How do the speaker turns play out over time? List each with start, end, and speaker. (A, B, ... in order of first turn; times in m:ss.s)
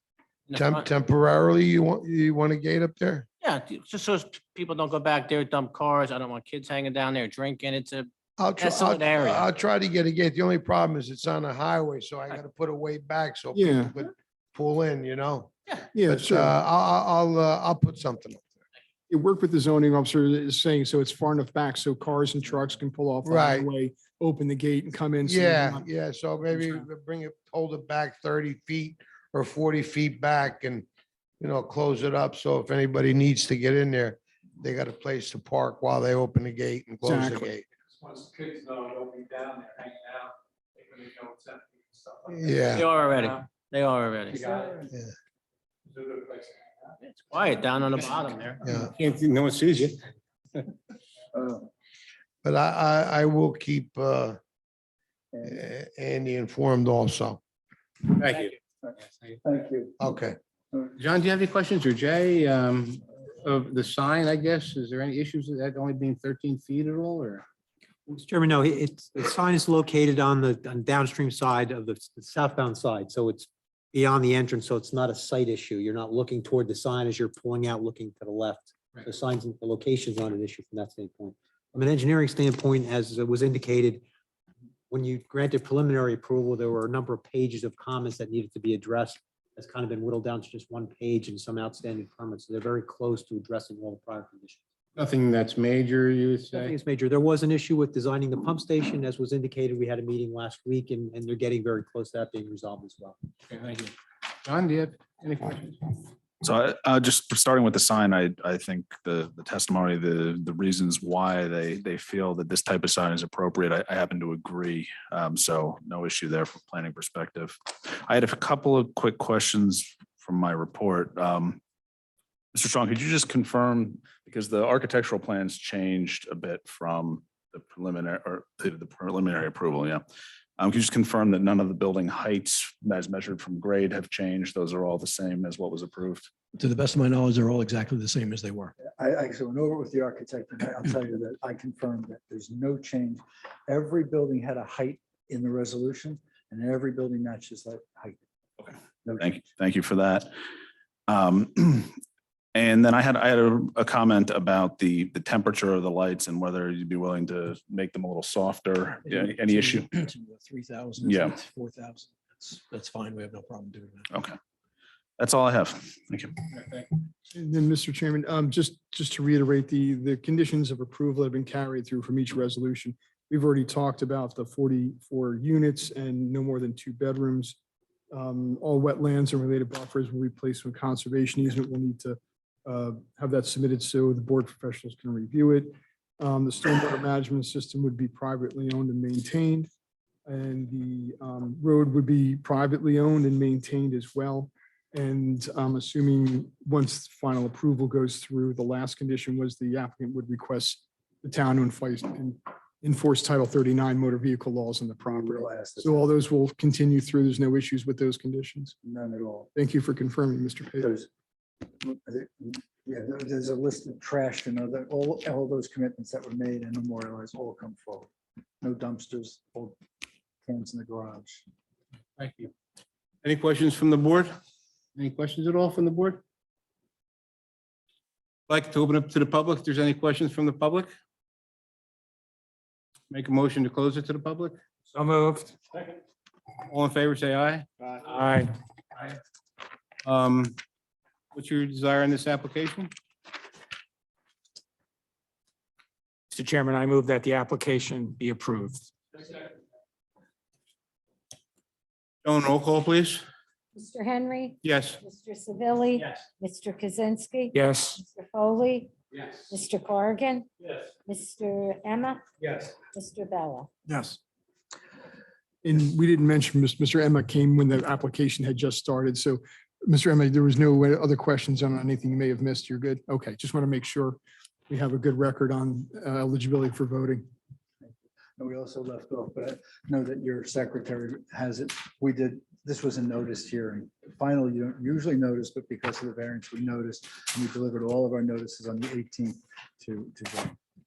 0:00.5-0:00.9 A
0:00.6-0:03.3 B
0:03.4-0:09.5 A
0:08.4-0:15.6 B
0:13.5-0:13.9 C
0:15.9-0:16.6 C
0:16.1-0:18.6 B
0:19.1-0:25.9 C
0:23.2-0:23.7 B
0:25.3-0:30.9 B
0:26.5-0:26.8 C
0:31.4-0:37.6 B
0:37.0-0:37.5 C
0:42.3-0:42.9 B
0:42.7-0:44.6 A
0:44.4-0:44.8 D
0:47.0-0:48.7 A
0:48.6-0:50.7 E
0:48.7-0:48.9 B
0:51.3-0:51.7 D
0:52.4-0:54.4 B
0:55.3-0:55.6 D
0:55.4-0:57.4 B
0:58.2-0:59.4 E
0:58.8-1:00.0 D
1:00.0-1:00.4 B
1:01.0-1:07.5 E
1:08.3-1:24.0 F
1:24.9-1:34.6 F
1:35.0-1:36.8 E
1:36.6-1:43.2 F
1:43.5-1:46.0 E
1:46.4-2:01.6 G
2:02.5-2:10.0 G
2:10.6-2:16.3 G
2:16.5-2:18.8 H
2:19.0-2:28.2 D
2:28.7-2:30.3 G
2:29.0-2:29.3 D
2:31.1-2:31.9 G
2:32.6-2:39.9 G
2:39.0-2:44.1 H
2:41.1-2:41.3 G
2:44.1-2:44.4 G
2:45.2-2:46.4 G
2:46.5-2:47.0 E
2:47.3-2:57.6 C
2:58.1-3:09.7 C
3:10.3-3:28.8 C
3:25.1-3:26.1 D
3:28.8-3:29.5 D
3:29.6-3:30.9 C
3:30.8-3:31.1 D
3:31.8-3:38.1 D
3:38.6-3:39.8 D
3:40.4-3:41.4 D
3:42.2-3:42.5 E
3:43.2-3:44.4 E
3:45.0-3:46.2 E
3:48.5-3:50.9 E
3:53.1-3:54.6 E
3:54.9-3:55.5 I
3:56.7-3:57.7 E
3:58.0-3:58.5 I
4:00.0-4:00.6 E
4:01.3-4:02.9 E
4:06.3-4:08.8 I
4:12.2-4:13.3 E
4:13.8-4:18.9 J
4:14.6-4:15.0 E
4:17.6-4:18.0 I
4:19.5-4:20.5 J
4:21.1-4:22.2 J
4:22.9-4:23.7 J
4:23.9-4:24.2 H
4:25.6-4:37.3 C
4:38.4-4:50.6 D